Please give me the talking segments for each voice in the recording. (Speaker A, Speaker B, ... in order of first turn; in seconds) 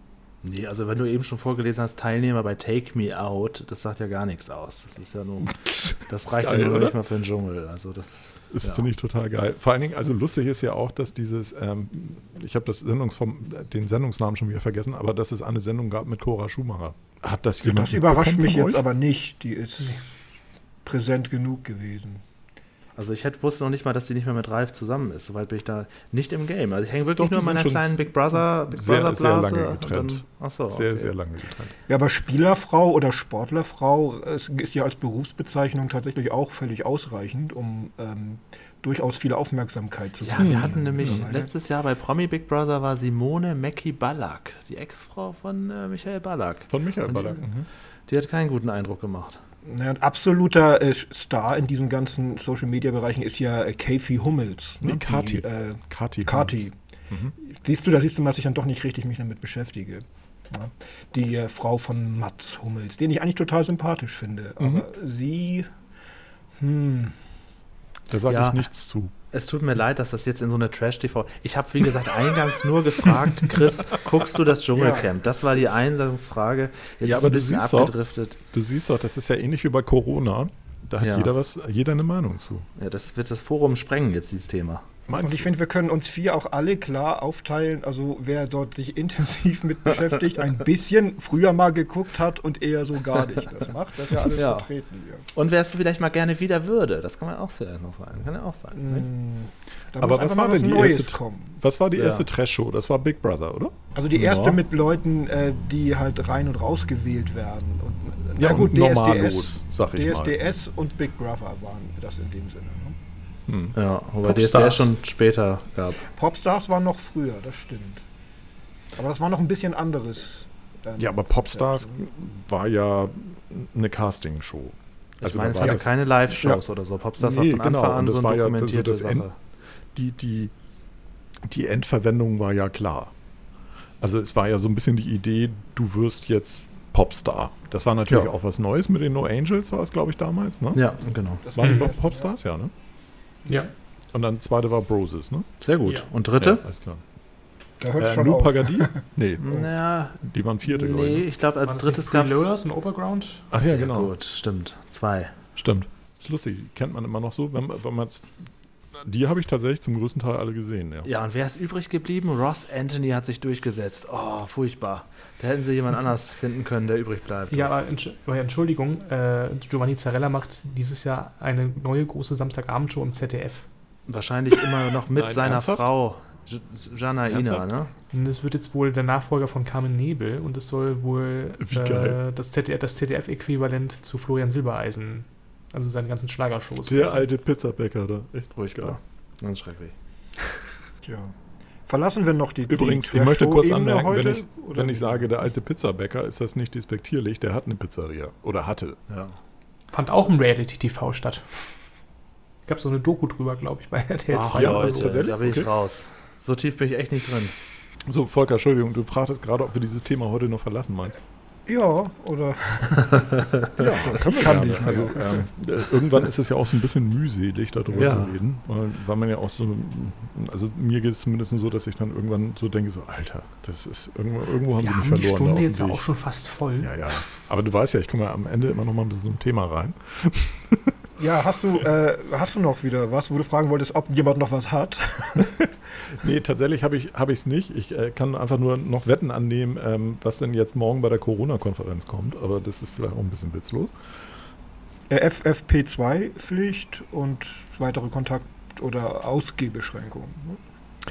Speaker A: 0.4-8.9, 22.9-31.1, 40.2-47.5, 48.1-49.4, 68.3-68.6, 69.3-78.4, 81.0-81.3, 82.8-84.9, 94.3-94.7, 95.3-99.0, 101.9-102.2, 104.1-104.6, 113.7-116.0, 125.2-129.4, 140.7-141.4, 145.6-146.6, 149.4-152.4, 153.6-155.3, 161.0-167.7, 174.1-177.9, 188.5-189.9, 199.1-199.4, 204.3-207.6, 217.9-218.4
Speaker B: 6.2-7.0, 8.5-18.8, 27.2-31.7, 40.4-41.3, 46.7-47.7, 54.8-57.3, 64.6-64.9, 68.1-69.1, 77.0-82.7, 85.1-85.5, 100.0-103.7, 108.4-110.5, 113.5-113.8, 114.3-114.8, 121.0-125.9, 127.2-129.3, 129.9-130.5, 131.4-133.1, 134.0-140.8, 141.6-142.7, 144.1-145.6, 146.4-147.0, 148.0-151.3, 153.5-154.1, 155.6-161.1, 175.1-175.9, 177.3-177.7, 181.6-182.2, 186.9-189.0, 192.7-199.0, 204.5-205.7, 208.1-211.2, 213.7-226.0, 226.8-230.9, 236.1-243.9
Speaker C: 17.6-20.0, 20.8-22.2, 31.9-41.5, 49.6-56.8, 57.4-65.7, 66.6-67.2, 74.7-75.1, 85.1-95.2, 98.7-101.6, 104.0-113.0, 116.1-118.0, 119.0-122.0, 125.6-126.6, 141.4-142.3, 147.8-149.0, 191.0-191.3, 191.9-195.3, 211.7-215.4, 231.2-235.7, 245.1-250.6
Speaker D: 141.6-141.9, 143.4-143.7, 151.7-153.4, 167.5-173.7, 178.1-187.3, 199.9-201.9, 202.7-205.3, 224.8-227.3